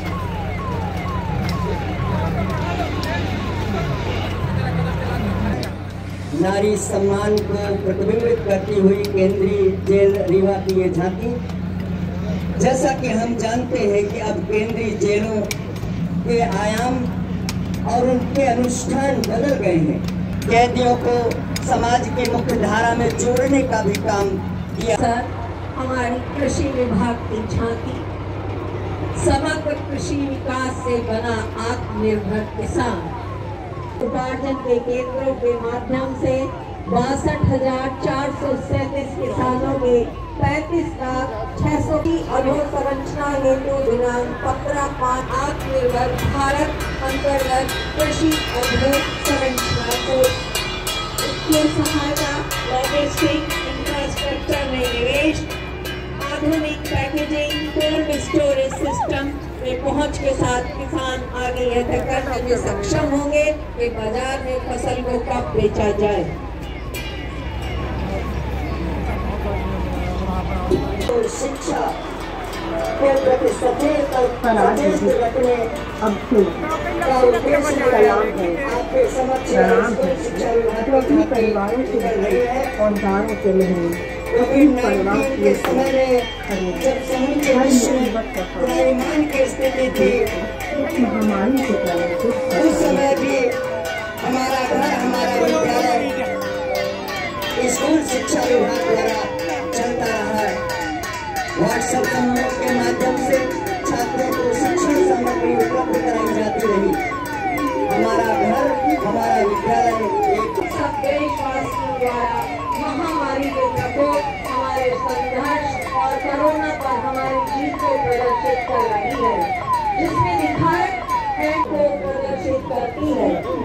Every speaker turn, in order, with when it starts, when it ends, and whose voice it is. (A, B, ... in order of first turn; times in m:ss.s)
0:06.3-0:11.4 A
0:12.6-0:15.5 A
0:16.2-0:17.1 A
0:17.9-0:25.0 A
0:25.0-0:28.0 B
0:29.2-0:33.1 B
0:34.0-0:50.3 B
0:51.2-0:55.5 B
0:56.2-1:06.3 B
1:10.8-1:11.9 A
1:13.0-1:15.7 A
1:14.4-1:15.1 C
1:16.0-1:16.7 C
1:17.0-1:22.8 A
1:17.9-1:18.6 C
1:19.5-1:20.2 C
1:20.8-1:22.1 C
1:22.8-1:25.9 C
1:24.3-1:30.4 A
1:26.4-1:26.8 C
1:27.5-1:28.8 C
1:30.1-1:33.2 C
1:32.5-1:33.5 A
1:34.2-1:36.2 A
1:37.6-1:40.6 A
1:41.6-1:47.0 A
1:47.9-1:50.6 A
1:50.6-2:03.4 B